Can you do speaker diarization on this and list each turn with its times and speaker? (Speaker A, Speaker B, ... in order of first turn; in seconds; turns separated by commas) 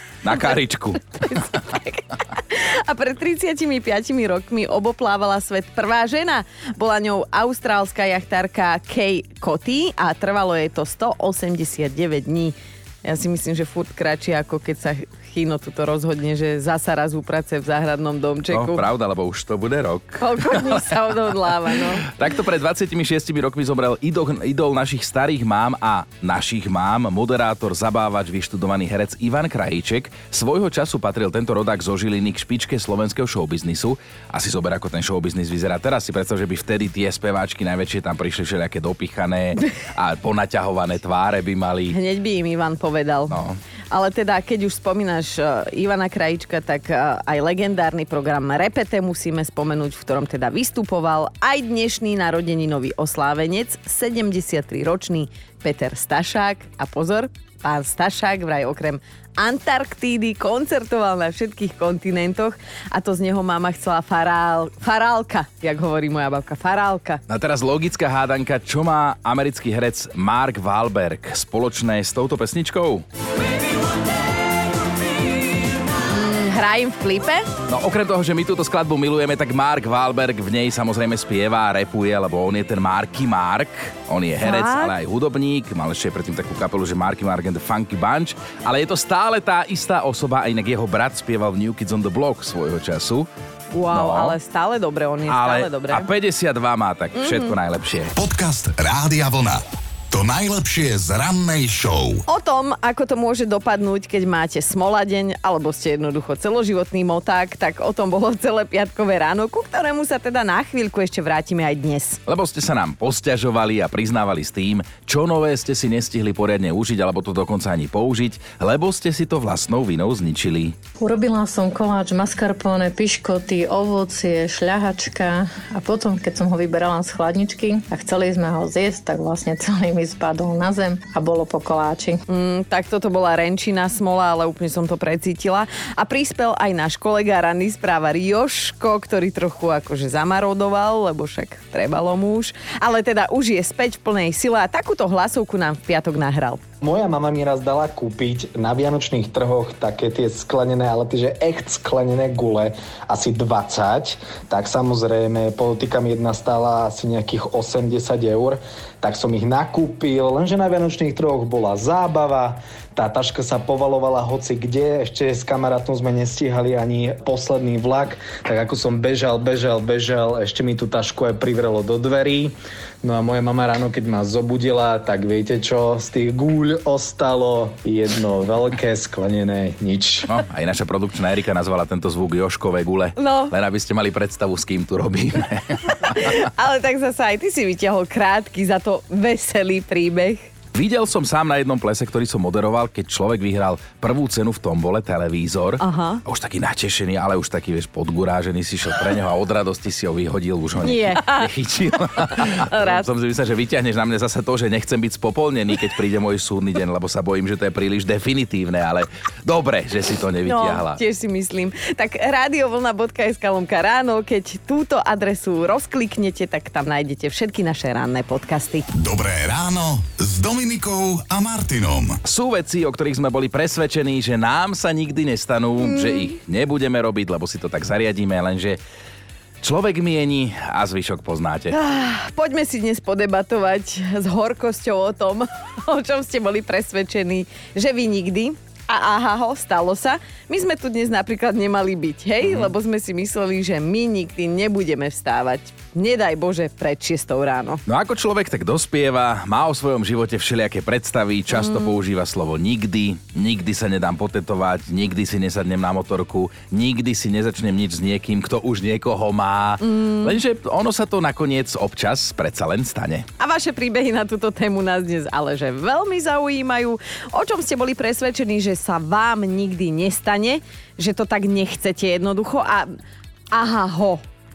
Speaker A: 0.2-1.0, Speaker B: 1.1-18.8, Speaker A: 18.5-20.8, Speaker B: 20.2-22.1, Speaker A: 22.1-42.0, Speaker B: 41.9-43.4, Speaker A: 43.3-43.6, Speaker B: 43.9-67.2, Speaker A: 67.3-73.0, Speaker B: 76.1-77.5, Speaker A: 77.7-93.3, Speaker B: 84.4-84.9, Speaker B: 93.7-96.1, Speaker A: 93.9-94.4, Speaker A: 95.3-98.1, Speaker B: 97.2-97.5, Speaker C: 98.2-102.2, Speaker B: 102.3-112.2, Speaker A: 112.3-120.8, Speaker D: 121.0-132.2, Speaker B: 132.3-146.6, Speaker E: 146.8-180.3, Speaker A: 180.3-186.3, Speaker B: 183.2-183.5, Speaker B: 186.1-190.5, Speaker A: 190.7-211.0, Speaker B: 195.8-196.2, Speaker B: 200.8-201.5, Speaker B: 202.3-203.0, Speaker B: 210.4-218.9, Speaker C: 218.9-222.2, Speaker A: 222.2-228.8, Speaker B: 225.8-226.3, Speaker A: 229.6-231.8, Speaker B: 231.7-247.8, Speaker A: 242.4-242.7, Speaker A: 247.9-263.3, Speaker B: 251.5-252.0, Speaker B: 259.8-260.4, Speaker B: 263.4-272.9, Speaker B: 273.5-274.2